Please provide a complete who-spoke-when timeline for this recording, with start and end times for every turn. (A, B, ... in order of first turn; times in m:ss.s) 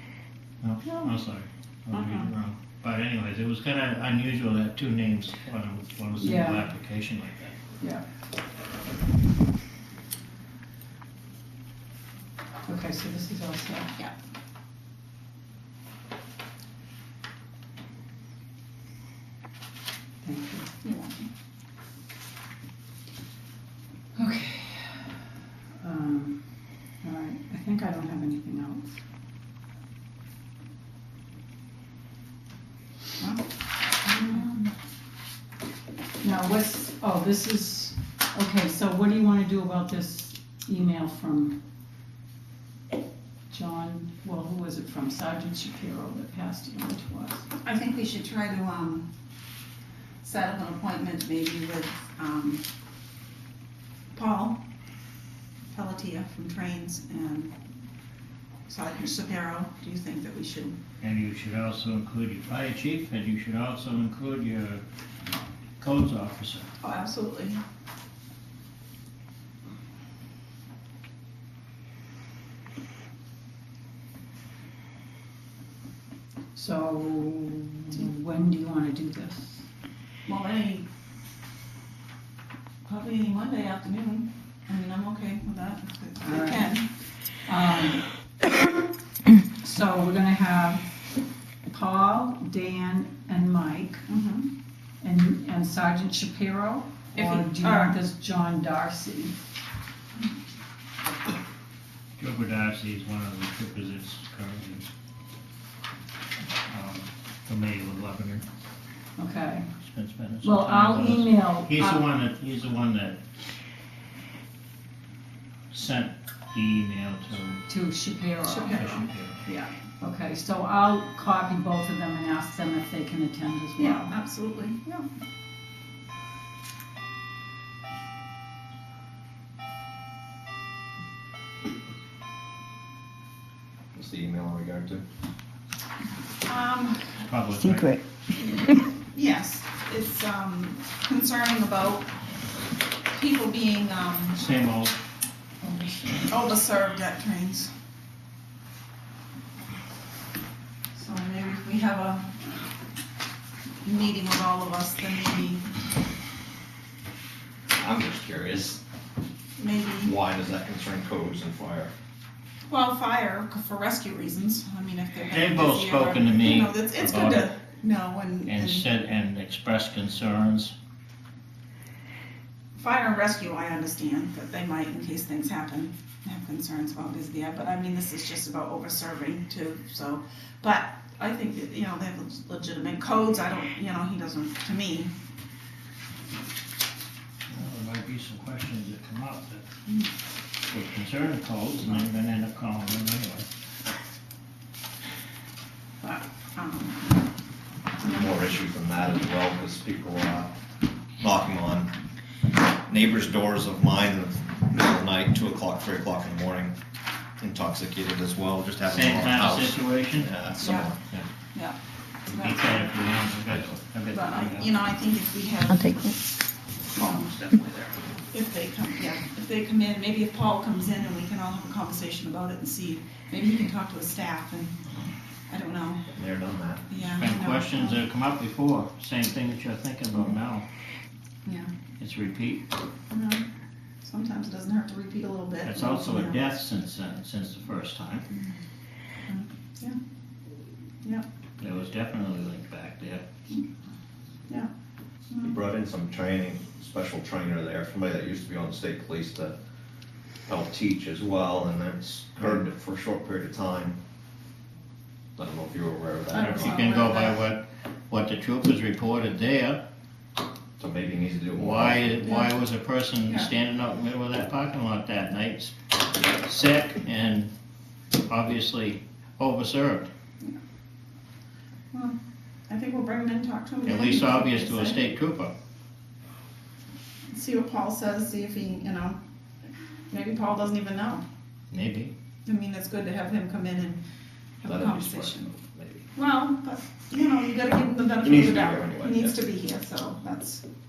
0:00.6-0:07.6 A
0:06.2-0:06.6 B
0:12.7-0:13.9 B
0:20.2-0:20.7 B
0:20.8-0:21.2 C
0:24.2-0:25.2 B
0:25.8-0:26.4 B
0:27.0-0:29.0 B
0:33.2-0:33.5 C
0:34.0-0:34.7 C
0:36.2-0:41.6 B
0:43.5-0:47.4 B
0:47.6-0:49.1 C
0:50.2-0:52.6 C
0:54.1-0:54.6 C
0:55.7-0:57.5 C
0:58.7-1:00.8 C
1:01.0-1:04.8 A
1:05.8-1:06.7 A
1:06.8-1:07.6 C
1:16.6-1:19.6 B
1:20.2-1:20.9 C
1:22.9-1:26.9 C
1:26.2-1:26.8 B
1:27.5-1:28.1 B
1:29.6-1:30.8 B
1:31.7-1:34.0 B
1:34.1-1:34.5 C
1:35.0-1:39.4 B
1:37.2-1:38.0 C
1:42.2-1:44.9 A
1:46.7-1:48.4 A
1:49.2-1:49.7 B
1:49.8-1:53.2 A
1:50.4-1:52.1 B
1:55.7-1:57.6 A
1:57.7-1:59.0 B
1:58.4-1:59.7 C
1:58.8-1:59.5 A
2:00.0-2:04.1 B
2:03.8-2:05.1 C
2:13.9-2:15.0 D
2:16.4-2:17.2 C
2:17.2-2:17.9 A
2:17.7-2:18.0 B
2:18.4-2:22.1 C
2:23.1-2:24.4 C
2:24.4-2:25.0 A
2:25.6-2:25.9 B
2:26.3-2:27.7 C
2:31.0-2:32.6 C
2:33.8-2:35.7 C
2:37.8-2:38.8 D
2:39.6-2:40.1 C
2:40.0-2:41.9 D
2:42.7-2:48.9 C
2:45.3-2:47.5 A
2:48.4-2:50.7 A
2:52.8-3:05.1 C
3:07.5-3:09.7 A
3:10.7-3:13.5 A
3:16.0-3:17.2 C
3:18.1-3:20.5 D
3:21.2-3:21.9 D
3:22.9-3:26.7 D
3:27.4-3:31.0 D
3:28.8-3:30.3 A
3:30.6-3:30.9 C
3:32.3-3:32.9 C
3:32.4-3:34.7 A
3:34.1-3:36.2 C
3:36.9-3:44.8 C
3:45.5-3:46.1 C
3:46.1-3:46.9 D
3:46.9-3:48.0 C
3:47.2-3:50.6 A
3:51.5-3:51.7 C
3:52.0-3:52.6 A
3:53.1-3:53.4 C
3:54.0-3:56.4 C
3:55.6-3:58.3 A
3:59.3-4:00.0 C
4:01.6-4:03.2 A
4:05.4-4:09.6 D
4:10.5-4:14.0 D
4:15.4-4:16.8 D
4:16.3-4:17.4 C
4:16.3-4:19.8 A
4:20.8-4:22.5 D
4:21.6-4:25.8 A
4:22.2-4:22.5 C
4:26.3-4:27.5 A
4:28.2-4:30.1 A
4:31.9-4:35.0 C
4:33.8-4:35.5 A
4:37.3-4:39.2 C
4:40.1-4:41.2 C
4:41.7-4:42.1 A
4:42.5-4:44.0 C
4:44.6-4:45.5 C
4:44.6-4:46.1 D
4:46.1-4:50.6 C
4:48.2-4:49.4 D